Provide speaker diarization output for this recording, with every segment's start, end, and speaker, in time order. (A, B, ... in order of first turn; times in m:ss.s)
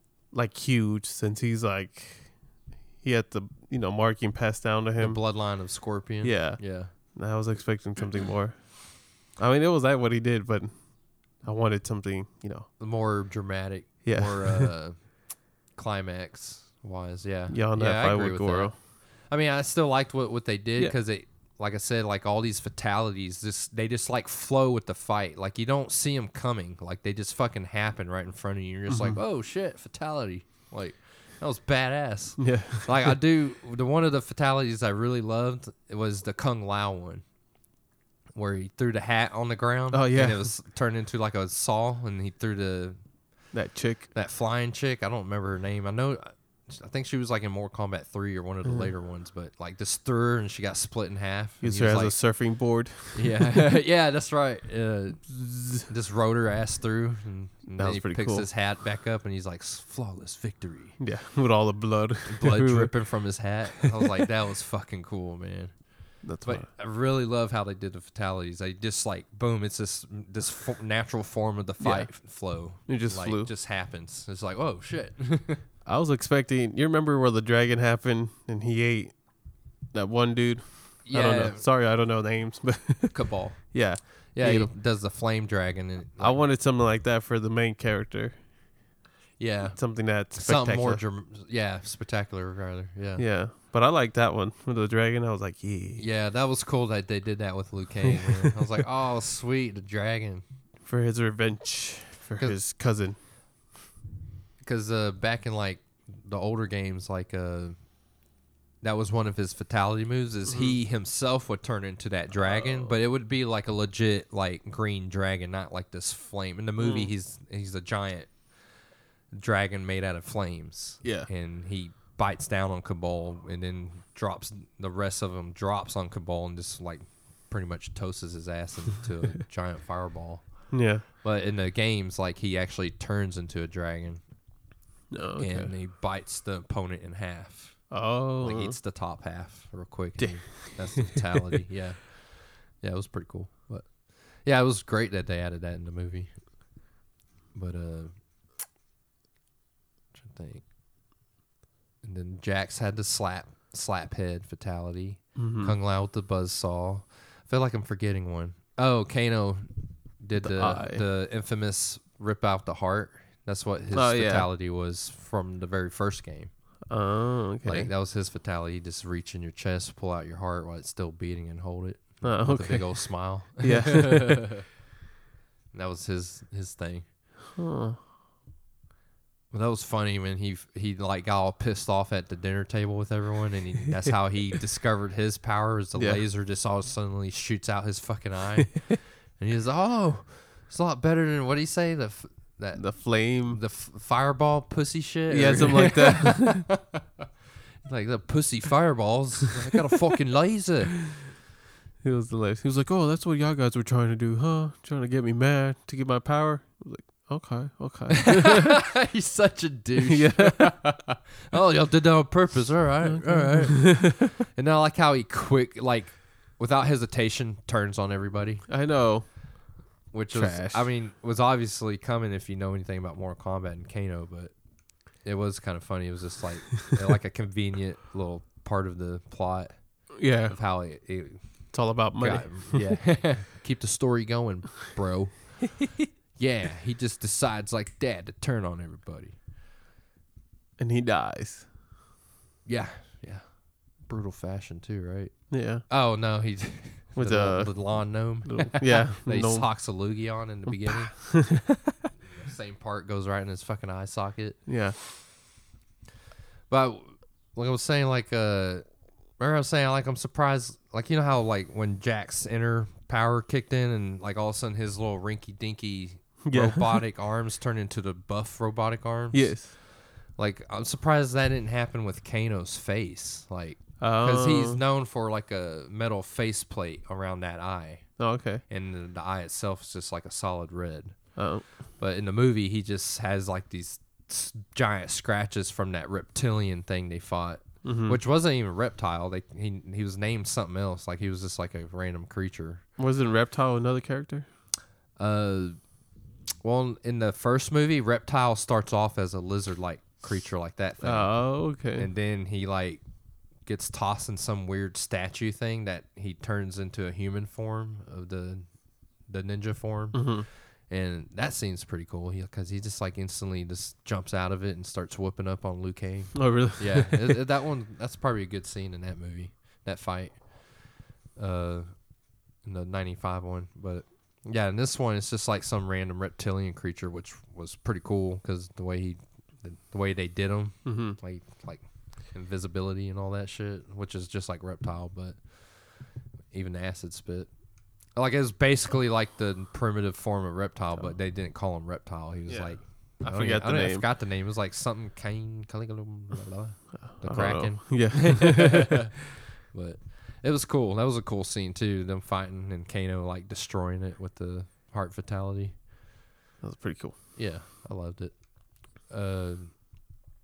0:00.3-0:12.7 A
0:05.0-0:06.9 B
0:12.8-0:37.4 B
0:14.0-0:14.7 A
0:17.5-0:18.8 A
0:28.9-0:29.2 A
0:32.4-0:33.2 A
0:38.3-0:43.5 B
0:39.9-0:40.5 A
0:43.5-0:44.1 A
0:44.1-1:01.0 B
0:48.6-0:48.9 A
0:51.6-0:53.5 A
0:57.7-0:58.5 A
1:01.0-1:03.6 A
1:02.3-1:15.7 B
1:06.2-1:06.7 A
1:11.8-1:13.5 A
1:15.8-1:24.7 A
1:21.0-1:21.7 B
1:23.1-1:26.4 B
1:26.2-1:28.6 A
1:29.4-1:33.3 B
1:29.7-1:31.0 A
1:33.2-1:36.1 A
1:36.0-1:40.4 B
1:40.8-1:43.2 A
1:42.4-1:42.6 B
1:44.6-1:48.1 B
1:48.8-1:58.8 B
1:50.4-1:50.8 A
1:52.3-1:53.0 A
1:56.8-1:57.1 A
1:59.3-2:14.7 B
2:01.0-2:01.3 A
2:10.7-2:11.0 A
2:15.1-2:15.7 A
2:15.4-2:26.9 B
2:17.9-2:18.8 A
2:20.2-2:21.2 A
2:27.5-2:28.4 B
2:30.1-2:30.7 B
2:32.0-2:47.1 B
2:35.4-2:35.8 A
2:40.4-2:41.0 A
2:43.9-2:44.5 A
2:46.9-2:47.9 A
2:47.6-2:54.6 B
2:52.2-2:54.6 A
2:55.7-2:57.3 B
2:57.5-2:58.0 A
2:59.5-3:16.8 B
3:05.9-3:06.2 A
3:12.7-3:13.6 A
3:15.3-3:16.7 A
3:17.8-3:21.2 B
3:22.0-3:28.9 A
3:28.4-3:38.7 B
3:30.0-3:30.7 A
3:33.0-3:34.1 A
3:38.7-3:40.9 A
3:40.1-3:59.4 B
3:50.1-3:50.6 A
3:51.7-3:53.0 A
4:00.8-4:01.7 A
4:02.6-4:15.0 B
4:05.5-4:05.9 A
4:07.1-4:10.0 A
4:10.7-4:11.7 A
4:14.6-4:15.0 A
4:16.7-4:52.8 B
4:26.4-4:27.0 A
4:29.3-4:29.7 A
4:34.0-4:34.8 A
4:38.2-4:38.6 A
4:41.3-4:41.8 A
4:47.8-4:48.2 A
4:53.0-4:54.5 A
4:55.2-5:55.8 B
5:01.0-5:02.1 A
5:10.1-5:10.5 A
5:16.3-5:17.4 A
5:30.8-5:31.2 A
5:42.4-5:44.1 A
5:47.0-5:49.0 A
5:56.6-5:57.2 A
5:57.3-5:59.8 B